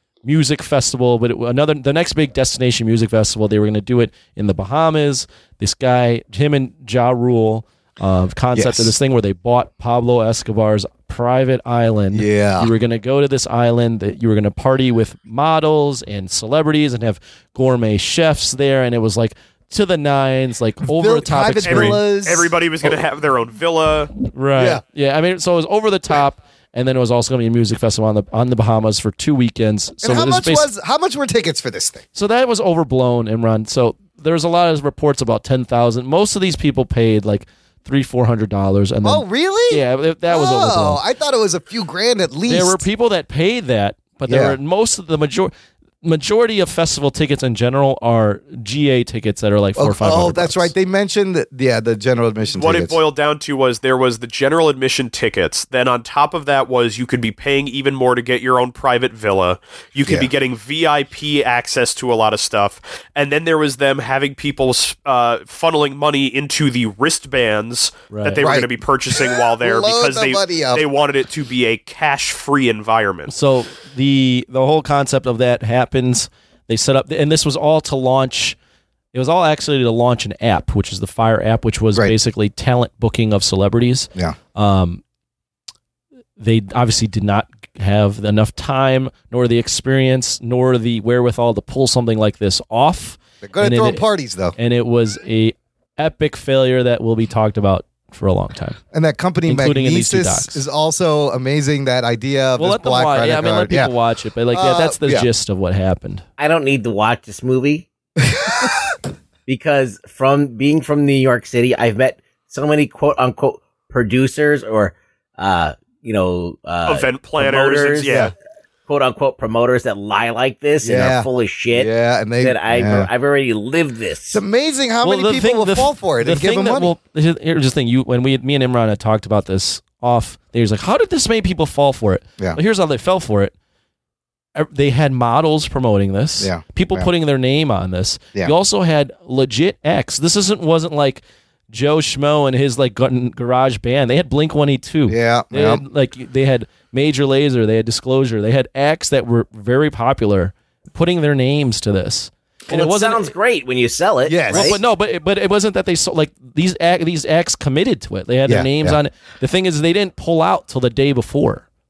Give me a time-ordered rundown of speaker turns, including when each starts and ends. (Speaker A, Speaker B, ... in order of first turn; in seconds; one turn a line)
Speaker A: 0.2-22.0
Speaker B: 8.5-8.9
Speaker B: 12.1-12.7
Speaker B: 20.8-23.0
Speaker C: 21.6-24.1
Speaker A: 24.3-30.7
Speaker B: 24.6-24.8
Speaker B: 30.0-32.0
Speaker A: 32.1-41.0
Speaker B: 39.0-42.8
Speaker A: 42.5-45.5
Speaker B: 44.3-44.5
Speaker A: 46.0-50.7
Speaker B: 49.8-53.0
Speaker C: 52.5-73.3
Speaker B: 60.0-60.3
Speaker A: 68.1-68.5
Speaker B: 68.4-70.8
Speaker A: 73.3-78.6
Speaker A: 79.1-85.0
Speaker A: 86.4-94.0
Speaker B: 93.4-94.5
Speaker A: 94.5-98.8
Speaker B: 98.9-103.9
Speaker A: 99.5-100.6
Speaker A: 102.6-106.2
Speaker B: 104.5-105.3
Speaker D: 106.4-107.9
Speaker B: 108.2-108.9
Speaker D: 109.5-118.3
Speaker C: 116.8-118.3
Speaker D: 118.9-124.4
Speaker B: 120.8-123.1
Speaker B: 124.3-126.9
Speaker A: 125.0-133.5
Speaker A: 134.6-153.3
Speaker B: 136.4-137.1
Speaker B: 145.1-145.8
Speaker D: 152.7-154.8
Speaker B: 154.2-154.8
Speaker A: 154.5-161.6
Speaker B: 158.4-159.0